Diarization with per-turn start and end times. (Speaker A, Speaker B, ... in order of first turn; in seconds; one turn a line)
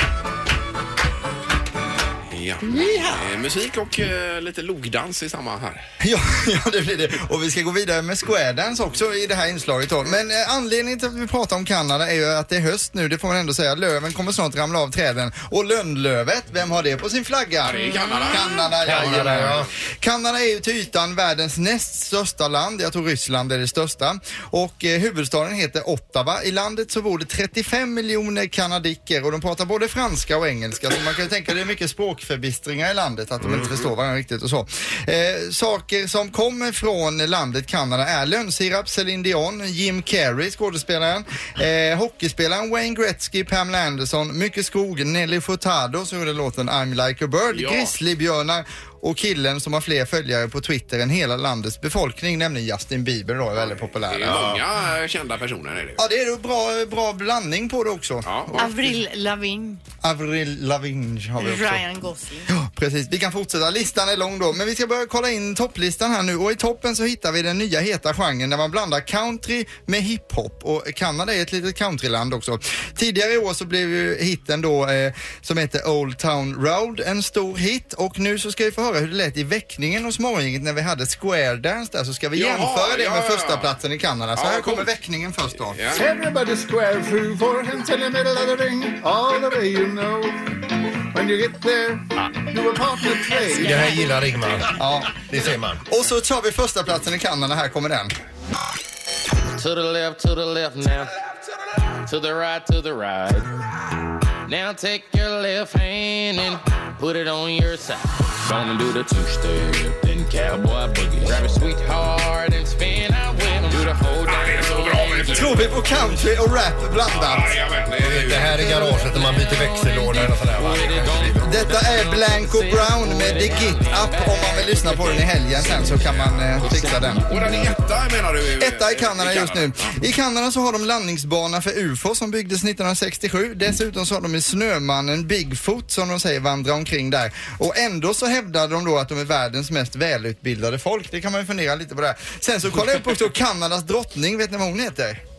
Speaker A: 2.3-5.8
Speaker B: 6.0-54.4
Speaker A: 17.6-19.7
Speaker C: 18.8-19.7
Speaker C: 33.5-33.7
Speaker A: 47.5-47.9
Speaker A: 53.6-56.0
Speaker C: 54.2-54.6
Speaker B: 56.0-59.0
Speaker A: 58.2-58.6
Speaker D: 58.6-59.8
Speaker B: 60.0-61.8
Speaker D: 61.4-62.5
Speaker B: 62.5-85.8
Speaker A: 82.3-83.7
Speaker A: 84.3-84.9
Speaker A: 85.7-86.0
Speaker E: 85.9-90.3
Speaker E: 91.1-93.9
Speaker D: 93.3-94.0
Speaker C: 93.5-95.9
Speaker B: 94.8-95.2
Speaker B: 95.9-98.1
Speaker F: 99.5-101.1
Speaker F: 102.0-103.5
Speaker F: 104.5-115.7
Speaker A: 114.3-115.6
Speaker B: 115.3-117.6
Speaker A: 117.1-118.6
Speaker C: 118.0-121.4
Speaker F: 118.5-127.8
Speaker B: 121.4-127.2
Speaker A: 127.3-129.9
Speaker B: 128.6-145.2